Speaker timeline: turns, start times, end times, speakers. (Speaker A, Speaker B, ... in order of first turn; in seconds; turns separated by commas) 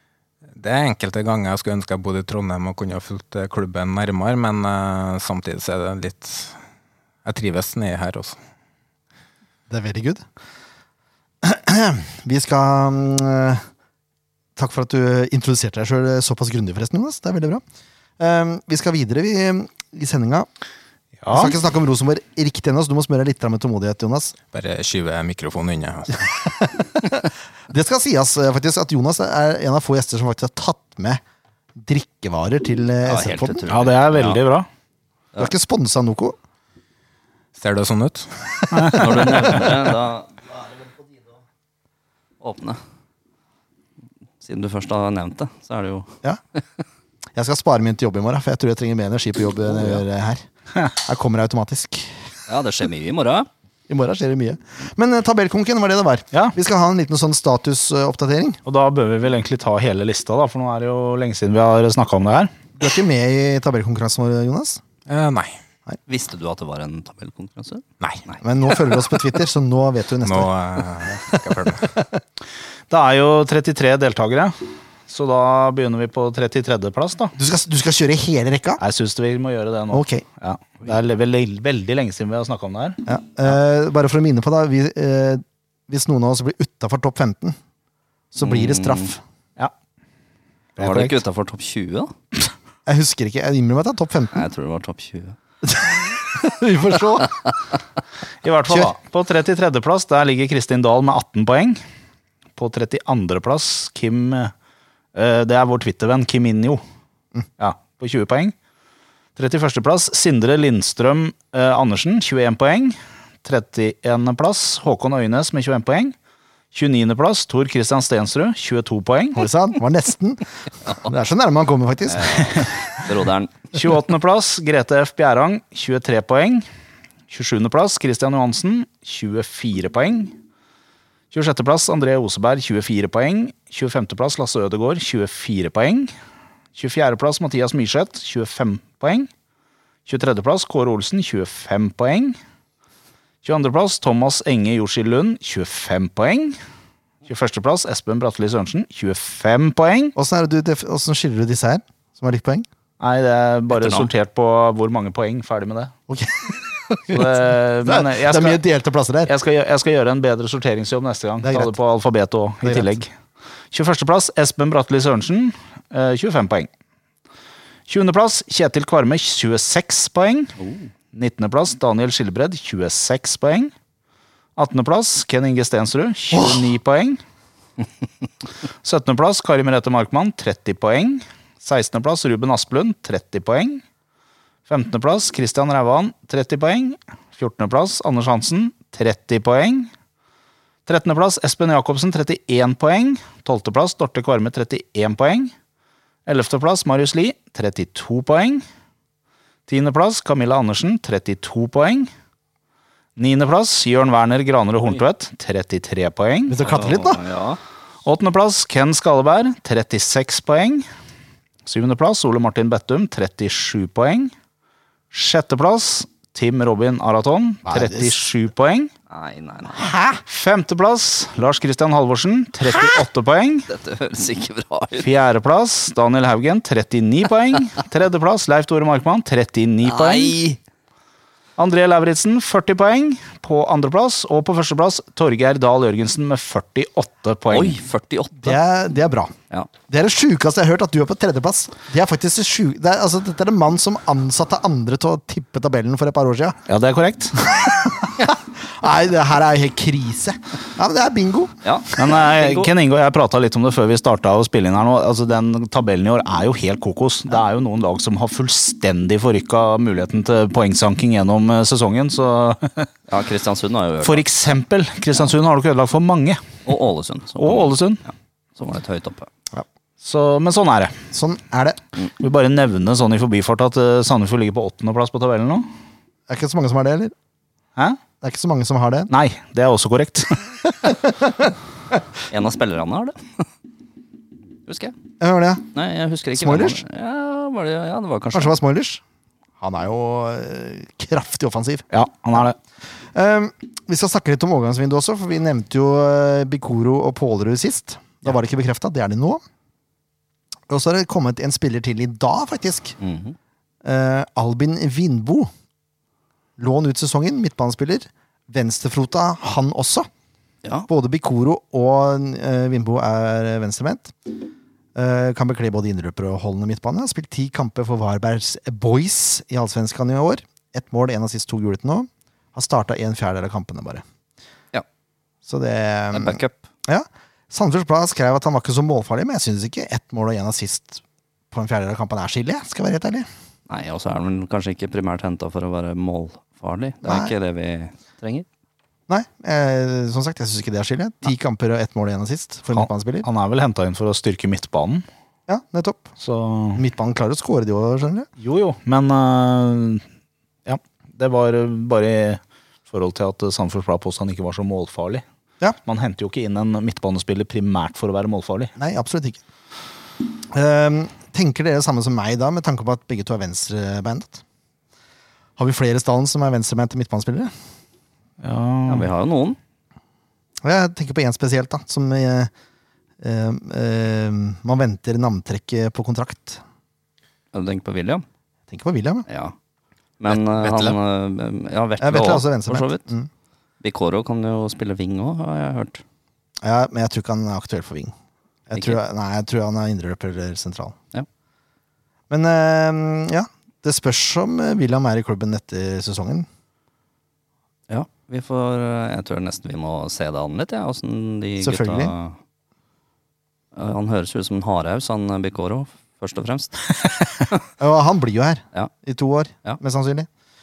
Speaker A: 0.5-6.6, Speaker A: 7.2-8.4, Speaker B: 9.7-10.2, Speaker B: 11.4-13.6, Speaker B: 14.6-17.6, Speaker B: 18.2-20.5, Speaker C: 21.2-21.5, Speaker B: 21.3-24.3, Speaker A: 24.5-26.5, Speaker B: 26.6-31.2, Speaker B: 31.8-33.7, Speaker D: 33.0-34.4, Speaker C: 33.7-34.7, Speaker B: 35.4-36.4, Speaker A: 37.5-39.0, Speaker C: 38.7-39.2, Speaker B: 38.9-39.2, Speaker D: 38.9-40.4, Speaker D: 42.4-42.8, Speaker D: 44.4-46.8, Speaker B: 47.3-52.1, Speaker D: 49.8-50.0, Speaker D: 52.5-53.5, Speaker B: 53.9-58.6, Speaker C: 58.6-62.5, Speaker B: 62.8-64.8, Speaker A: 65.1-65.6, Speaker D: 66.1-69.2, Speaker B: 68.4-72.2, Speaker A: 70.2-71.9, Speaker C: 72.9-77.3, Speaker B: 77.3-78.8, Speaker C: 78.8-83.0, Speaker B: 79.9-80.2, Speaker B: 83.0-87.6, Speaker B: 88.3-89.2, Speaker D: 88.4-89.1, Speaker D: 90.8-92.1, Speaker B: 90.8-91.1, Speaker B: 92.8-94.4, Speaker D: 94.3-95.3, Speaker B: 95.7-97.3, Speaker C: 98.4-101.8, Speaker C: 102.5-104.5, Speaker C: 105.1-106.8, Speaker C: 107.6-108.5, Speaker C: 109.3-116.1, Speaker C: 116.7-119.5, Speaker B: 119.3-122.7, Speaker D: 122.1-123.6, Speaker C: 123.7-126.7, Speaker C: 127.3-130.3, Speaker C: 131.3-136.1, Speaker C: 136.7-139.3, Speaker C: 140.1-142.4, Speaker C: 143.4-146.6, Speaker C: 147.2-150.1, Speaker B: 150.1-152.7, Speaker C: 153.0-155.9, Speaker D: 153.7-154.1, Speaker B: 156.1-159.3, Speaker C: 157.1-158.6, Speaker C: 159.3-163.1, Speaker B: 161.4-161.7, Speaker B: 162.6-162.9, Speaker C: 163.7-166.7, Speaker C: 167.9-170.6, Speaker D: 170.6-170.9, Speaker C: 171.1-173.7, Speaker C: 174.6-177.2, Speaker B: 176.3-176.6, Speaker C: 178.8-183.8, Speaker C: 184.7-189.9, Speaker C: 190.8-195.5, Speaker C: 196.2-198.6, Speaker C: 199.7-202.1, Speaker C: 203.2-206.6, Speaker B: 206.5-207.2, Speaker D: 206.6-207.6, Speaker C: 208.0-210.8, Speaker C: 211.6-214.3, Speaker C: 215.1-218.9, Speaker B: 217.6-218.1, Speaker D: 219.1-219.9, Speaker B: 219.8-220.2, Speaker C: 220.2-223.7, Speaker D: 223.7-225.1, Speaker C: 225.0-230.4, Speaker D: 229.8-230.6, Speaker C: 231.6-237.8, Speaker D: 237.5-238.6, Speaker B: 238.4-239.3, Speaker B: 239.9-246.6, Speaker C: 246.7-247.7, Speaker B: 247.6-252.1, Speaker D: 251.6-252.7, Speaker C: 252.0-262.9, Speaker D: 263.1-264.2, Speaker C: 264.0-266.4, Speaker D: 266.6-269.3, Speaker C: 267.4-268.0, Speaker C: 270.0-271.0, Speaker B: 271.1-271.8, Speaker C: 272.2-275.7, Speaker B: 276.3-277.1, Speaker B: 278.2-279.1, Speaker C: 279.1-280.6, Speaker B: 280.8-281.5, Speaker D: 282.3-283.4, Speaker D: 284.7-284.9, Speaker B: 285.2-285.7, Speaker D: 285.7-288.5, Speaker B: 286.4-286.8, Speaker B: 288.3-289.0, Speaker B: 289.6-291.9, Speaker C: 291.9-292.6, Speaker B: 293.1-299.4, Speaker B: 300.7-302.9, Speaker D: 303.0-303.4, Speaker B: 303.8-305.5, Speaker B: 306.6-310.1, Speaker B: 310.9-314.1, Speaker B: 314.9-324.0, Speaker B: 325.5-333.3, Speaker D: 326.1-326.6, Speaker D: 333.7-338.4, Speaker B: 337.0-337.3, Speaker B: 339.1-343.2, Speaker C: 342.7-345.0, Speaker B: 345.5-346.1, Speaker C: 346.2-346.8, Speaker B: 346.7-348.3, Speaker C: 348.4-350.0, Speaker C: 350.6-355.2, Speaker C: 355.8-358.7, Speaker B: 358.8-359.4, Speaker B: 360.5-364.4, Speaker B: 365.6-367.5, Speaker C: 368.4-369.1, Speaker D: 368.9-369.6, Speaker B: 370.6-372.5, Speaker B: 373.2-376.6, Speaker D: 377.5-378.2, Speaker B: 378.7-379.2, Speaker D: 379.3-379.5, Speaker D: 380.2-383.1, Speaker B: 380.6-380.9, Speaker B: 382.0-383.3, Speaker D: 383.8-386.0, Speaker B: 386.6-388.1, Speaker B: 388.7-390.9, Speaker B: 392.3-396.5, Speaker D: 397.9-402.4, Speaker B: 401.6-402.1, Speaker D: 403.7-407.5, Speaker B: 407.8-410.3